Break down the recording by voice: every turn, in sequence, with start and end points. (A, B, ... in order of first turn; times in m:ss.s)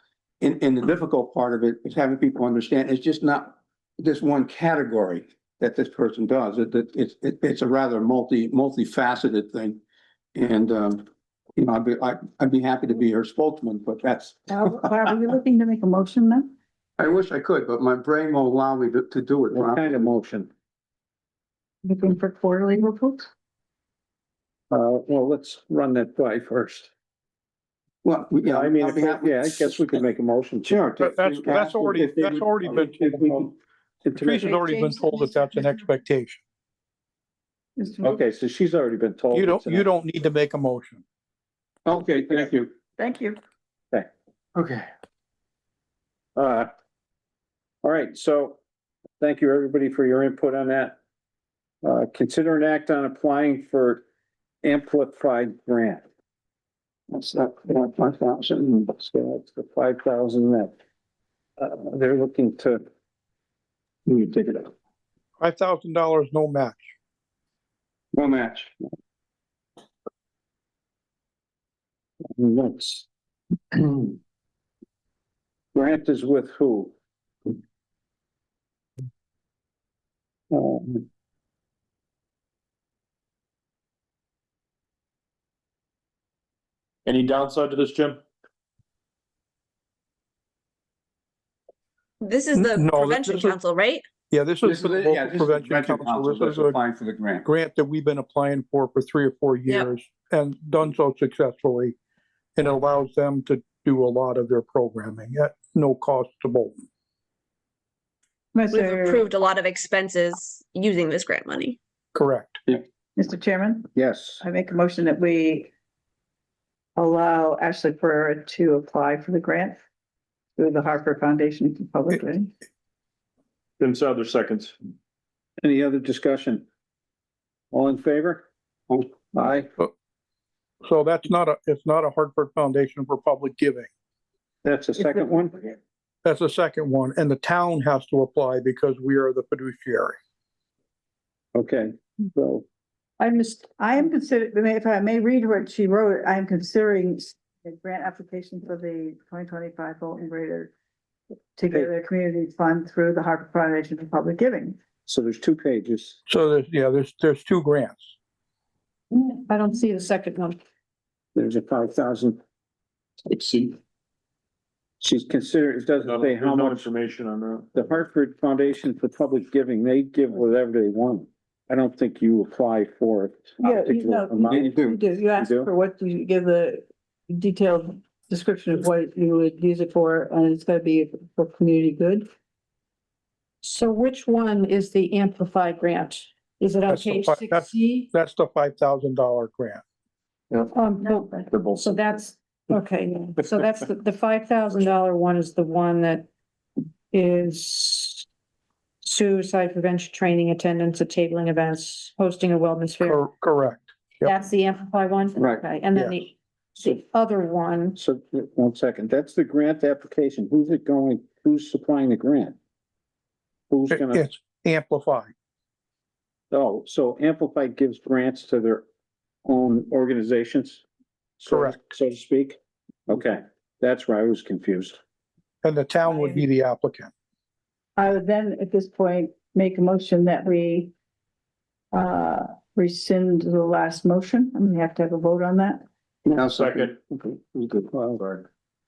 0:00.4-0:09.8 A
0:10.3-0:14.9 A
0:14.5-0:16.5 B
0:17.0-0:20.1 A
0:19.5-0:20.5 C
0:21.8-0:23.3 B
0:24.7-0:26.9 C
0:28.0-0:30.0 A
0:28.4-0:30.9 C
0:30.6-0:33.5 A
0:31.0-0:33.3 D
0:34.1-0:34.6 C
0:34.1-0:36.4 D
0:34.5-0:35.8 B
0:37.8-0:38.2 B
0:38.0-0:39.8 C
0:39.3-0:41.0 D
0:41.8-0:42.7 A
0:43.0-0:43.4 B
0:44.5-0:44.9 A
0:46.4-0:46.7 C
0:47.8-0:48.6 C
0:49.2-0:51.0 C
0:51.8-0:54.0 C
0:54.6-0:56.0 C
0:57.1-0:58.9 A
0:59.0-1:00.7 C
1:01.6-1:02.8 C
1:04.1-1:04.7 A
1:05.4-1:06.8 D
1:08.1-1:08.8 A
1:12.4-1:13.0 C
1:13.7-1:14.1 C
1:15.7-1:16.9 C
1:20.5-1:21.0 C
1:27.0-1:28.2 E
1:32.2-1:34.0 F
1:32.5-1:33.6 D
1:34.3-1:36.8 D
1:34.6-1:37.5 A
1:37.4-1:42.0 D
1:42.6-1:46.8 D
1:48.5-1:49.2 B
1:48.7-1:51.8 F
1:52.1-1:52.6 D
1:53.2-1:53.9 B
1:53.9-1:54.4 C
1:54.4-1:55.7 B
1:57.0-1:59.8 B
2:00.6-2:02.5 B
2:03.8-2:04.7 E
2:05.6-2:06.6 C
2:07.7-2:08.4 C
2:09.3-2:09.7 C
2:10.8-2:13.9 D
2:14.6-2:15.6 C
2:15.0-2:15.3 B
2:16.2-2:20.2 D
2:21.5-2:22.6 C
2:23.4-2:30.7 B
2:31.6-2:34.8 B
2:35.0-2:36.2 C
2:36.3-2:38.0 D
2:39.1-2:40.6 G
2:41.3-2:42.4 C
2:43.3-2:43.8 E
2:45.0-2:46.9 C
2:46.0-2:47.7 E
2:47.7-2:54.7 C
2:53.6-3:02.3 B
2:54.5-2:55.0 A
2:55.3-2:55.7 C
3:03.6-3:08.1 G
3:06.9-3:09.8 D
3:10.7-3:16.3 G
3:17.1-3:18.2 G
3:19.0-3:23.2 G
3:23.0-3:24.3 D
3:24.2-3:28.0 G
3:25.4-3:25.6 A
3:28.0-3:32.6 C
3:33.7-3:34.2 C
3:33.9-3:35.3 D
3:36.5-3:38.8 C
3:39.4-3:40.8 C
3:41.4-3:45.0 C
3:41.5-3:41.8 D
3:45.6-3:47.1 D
3:46.1-3:46.4 B
3:48.0-3:50.9 B
3:51.9-3:55.8 B
3:56.2-3:57.9 A
3:56.6-3:56.9 E
3:57.9-3:58.2 C